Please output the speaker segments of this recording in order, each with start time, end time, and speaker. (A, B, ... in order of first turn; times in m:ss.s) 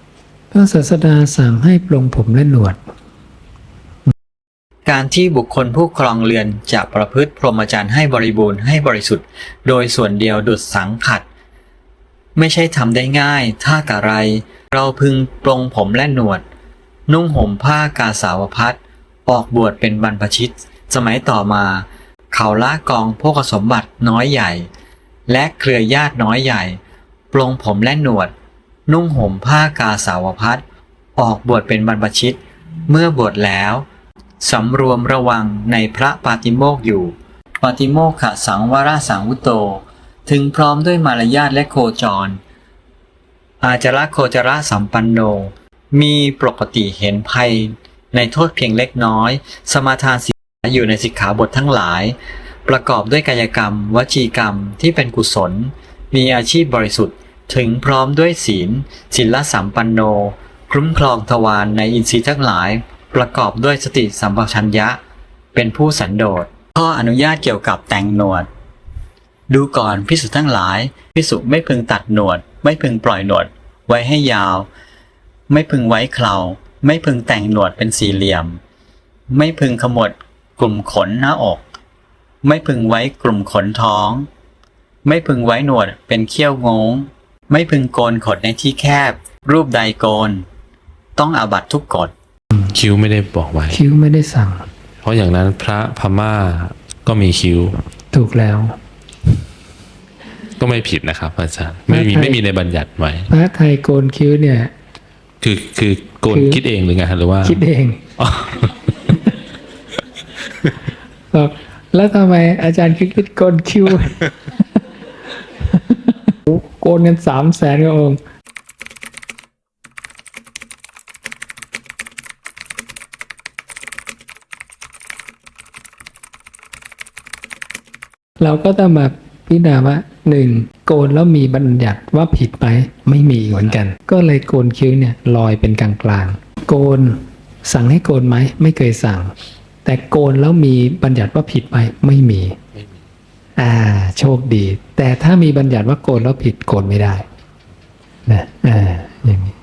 0:00.5-0:02.8 A
0:04.8-0:11.3 B
0:12.4-0:16.4 B
0:17.1-0:24.7 B
0:25.3-0:26.8 B
0:27.3-0:28.3 B
0:28.9-0:30.6 B
0:31.2-0:33.9 B
0:34.4-0:42.4 B
0:43.6-1:05.0 B
1:05.5-1:08.5 B
1:09.5-1:14.7 B
1:15.5-1:18.6 B
1:19.3-1:21.6 B
1:22.4-1:24.3 B
1:25.0-1:30.4 B
1:31.2-1:32.1 B
1:32.7-1:33.8 C
1:33.7-1:34.7 A
1:35.0-1:37.8 C
1:38.1-1:38.8 A
1:40.6-1:43.3 C
1:41.9-1:42.4 A
1:43.3-1:44.7 A
1:45.4-1:47.6 C
1:46.3-1:46.6 A
1:47.4-1:48.0 A
1:48.2-1:49.2 C
1:51.3-1:54.3 A
1:55.7-1:58.2 A
2:08.4-2:19.3 A
2:19.8-2:22.6 A
2:23.6-2:27.2 A
2:28.3-2:29.5 A